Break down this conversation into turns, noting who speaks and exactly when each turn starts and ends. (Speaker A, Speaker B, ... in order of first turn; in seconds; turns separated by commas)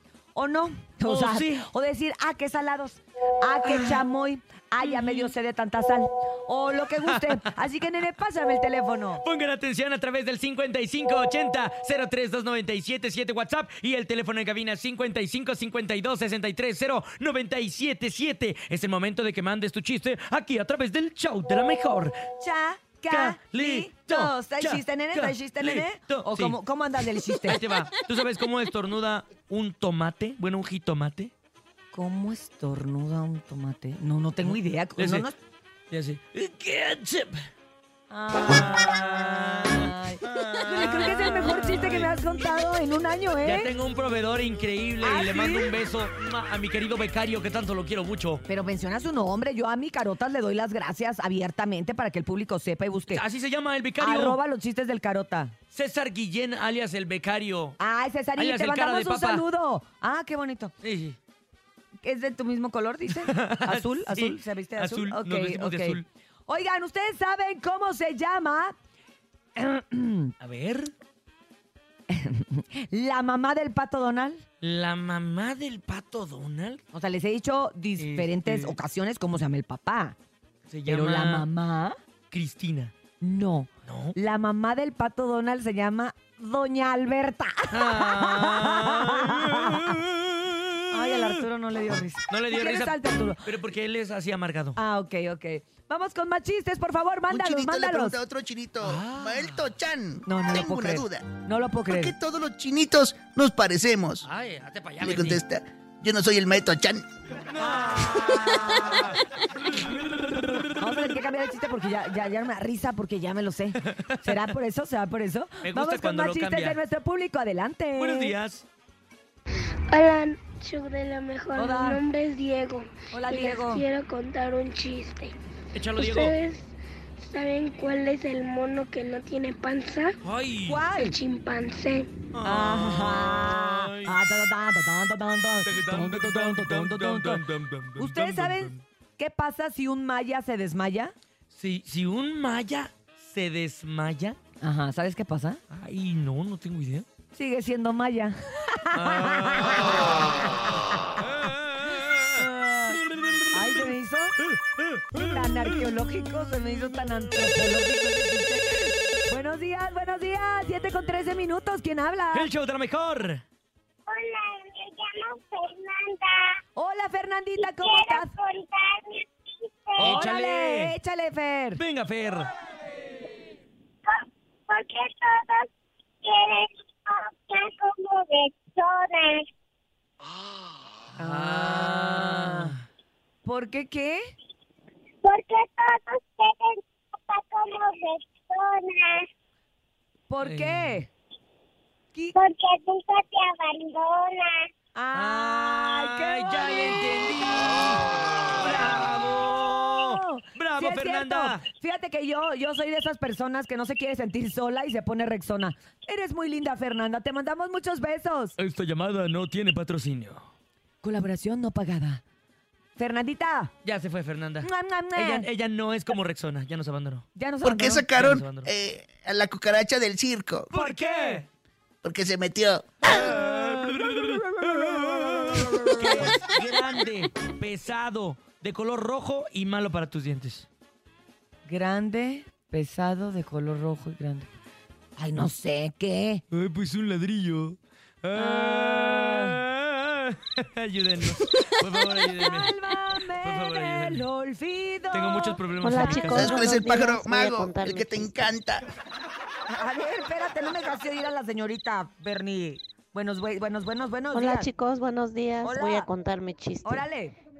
Speaker A: 0.3-9.2, Speaker B: 1.0-1.7, Speaker B: 3.7-4.0, Speaker B: 4.8-5.3, Speaker B: 7.0-7.5, Speaker B: 9.2-22.2, Speaker A: 22.4-27.6, Speaker B: 23.1-26.6, Speaker B: 27.3-31.3, Speaker A: 31.9-35.4, Speaker B: 34.4-35.3, Speaker B: 35.9-37.5, Speaker A: 38.1-43.7, Speaker B: 38.5-42.1, Speaker B: 43.4-48.4, Speaker A: 45.0-45.7, Speaker A: 48.5-53.2, Speaker B: 53.1-54.4, Speaker A: 54.0-55.5, Speaker B: 55.7-57.8, Speaker A: 57.8-60.7, Speaker B: 58.4-59.4, Speaker B: 60.8-61.2, Speaker A: 62.0-68.7, Speaker B: 63.2-66.0, Speaker A: 69.5-70.3, Speaker B: 70.4-70.9, Speaker A: 72.1-74.4, Speaker B: 74.6-76.8, Speaker A: 76.9-80.1, Speaker B: 78.0-78.8, Speaker B: 80.7-81.5, Speaker A: 80.9-82.0, Speaker B: 82.3-82.9, Speaker A: 83.2-90.0, Speaker B: 83.8-84.2, Speaker B: 87.7-91.3, Speaker A: 90.9-93.5, Speaker B: 92.3-94.8, Speaker A: 94.8-98.2, Speaker C: 97.3-101.3, Speaker B: 98.8-99.7, Speaker A: 100.2-102.1, Speaker C: 101.9-104.2, Speaker B: 104.2-105.4, Speaker C: 105.0-107.0, Speaker B: 107.5-110.8, Speaker A: 107.5-109.2, Speaker A: 110.8-118.3, Speaker B: 113.8-114.4, Speaker B: 115.6-116.8, Speaker B: 118.0-118.7, Speaker D: 119.9-125.3, Speaker A: 121.5-122.0, Speaker A: 123.1-123.8, Speaker B: 125.7-126.4, Speaker D: 125.9-130.2, Speaker B: 130.2-130.8, Speaker A: 130.6-131.2, Speaker D: 130.9-132.1, Speaker B: 132.3-134.2, Speaker A: 132.4-137.4, Speaker B: 135.6-138.8, Speaker A: 138.0-141.1, Speaker B: 141.5-144.4, Speaker A: 144.6-145.6, Speaker B: 145.7-147.1, Speaker A: 147.3-151.3, Speaker B: 148.9-150.3, Speaker B: 151.2-152.4, Speaker A: 151.9-154.4, Speaker B: 153.0-153.9, Speaker B: 154.5-155.0, Speaker A: 155.1-162.5, Speaker B: 162.3-163.4, Speaker E: 164.1-166.6, Speaker A: 166.8-168.3, Speaker E: 167.8-170.1, Speaker B: 170.0-170.9, Speaker A: 170.0-171.8, Speaker B: 171.8-172.5, Speaker E: 174.0-175.7, Speaker E: 176.2-179.5, Speaker B: 181.1-182.8, Speaker A: 181.2-182.8, Speaker A: 183.4-184.2, Speaker E: 185.2-189.3, Speaker A: 190.3-191.1, Speaker B: 190.4-191.0, Speaker E: 192.3-194.7, Speaker A: 194.9-197.4, Speaker B: 195.1-201.6, Speaker A: 198.6-198.9, Speaker A: 199.9-208.6, Speaker B: 208.6-210.5, Speaker A: 211.0-212.2, Speaker A: 212.9-213.7, Speaker B: 213.8-217.2, Speaker A: 214.6-215.5, Speaker A: 217.3-218.1, Speaker C: 217.6-220.7, Speaker B: 218.1-218.7, Speaker B: 220.7-221.4, Speaker A: 220.7-221.4, Speaker C: 222.0-223.2, Speaker B: 223.0-230.7, Speaker A: 223.3-226.4, Speaker A: 231.7-234.5, Speaker A: 235.2-236.4, Speaker B: 236.5-244.2, Speaker A: 238.3-239.6, Speaker A: 241.9-246.4, Speaker B: 245.1-246.6, Speaker F: 245.8-248.5, Speaker C: 246.3-248.8, Speaker A: 249.7-254.7, Speaker F: 254.3-257.0, Speaker A: 255.6-256.1, Speaker A: 256.8-257.3